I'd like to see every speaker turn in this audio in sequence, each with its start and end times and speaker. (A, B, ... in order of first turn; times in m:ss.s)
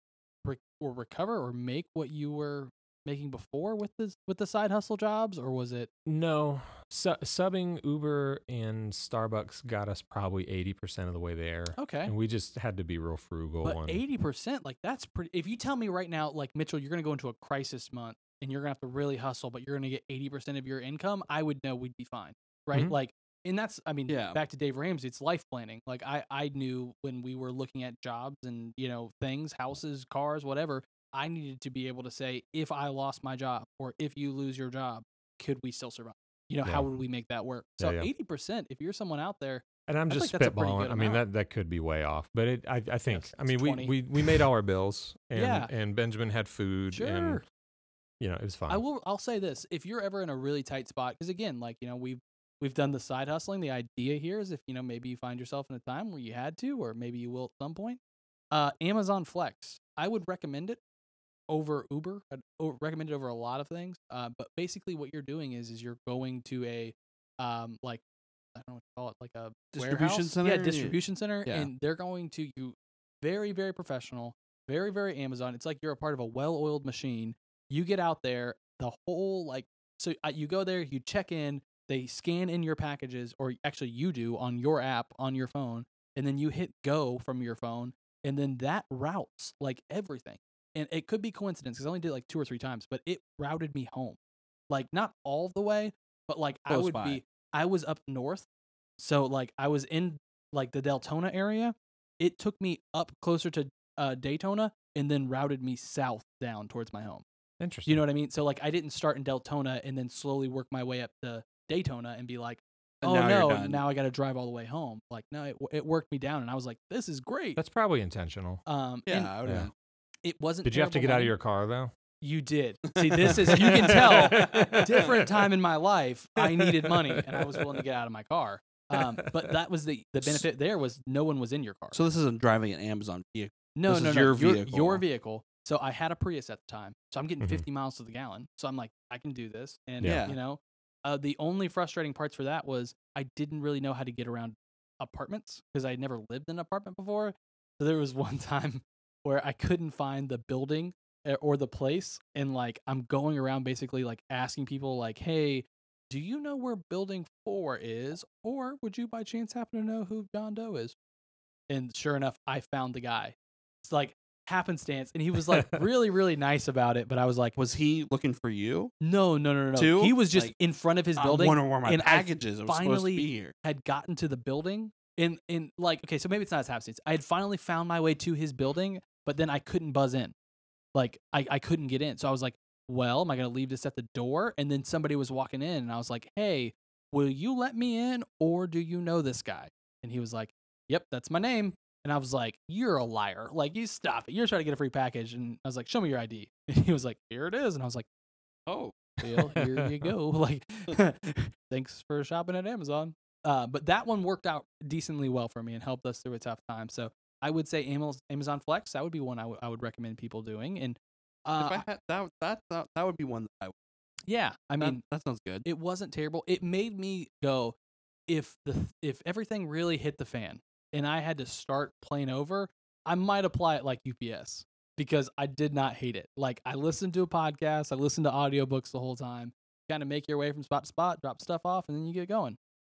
0:00.4-0:05.9 A
0:06.0-0:14.0 B
0:11.8-0:12.1 A
0:13.6-0:41.2 A
0:24.1-0:24.4 C
0:37.8-0:38.1 B
0:39.9-0:47.4 B
0:43.1-0:44.4 A
0:45.3-0:45.7 A
0:46.9-0:47.4 A
0:48.2-0:48.8 B
0:48.7-0:58.0 A
0:58.5-1:00.8 A
1:01.5-1:08.0 A
1:08.5-1:34.2 A
1:09.7-1:11.7 C
1:34.7-1:38.4 A
1:36.7-1:37.2 C
1:39.0-1:47.2 A
1:47.6-1:48.0 B
1:47.8-1:57.6 A
1:53.0-1:53.8 C
1:57.6-1:58.6 B
1:58.6-1:59.3 A
1:59.1-1:59.7 C
1:59.4-1:59.7 B
2:00.2-2:01.3 A
2:00.6-2:01.9 B
2:02.2-2:12.0 A
2:03.1-2:05.0 C
2:03.3-2:05.3 B
2:06.6-2:07.6 B
2:08.9-2:09.5 B
2:11.9-2:15.0 C
2:13.8-2:40.9 A
2:20.0-2:20.3 B
2:20.0-2:20.4 C
2:41.7-2:47.5 A
2:47.6-2:48.9 C
2:49.0-3:00.3 A
2:49.8-2:50.5 C
2:51.2-2:53.5 C
3:00.9-3:18.0 A
3:18.7-3:19.2 C
3:19.2-3:31.8 A
3:19.5-3:20.1 B
3:31.6-3:33.7 C
3:34.3-3:35.0 A
3:34.8-3:35.6 C
3:35.6-3:37.8 A
3:38.3-3:52.6 A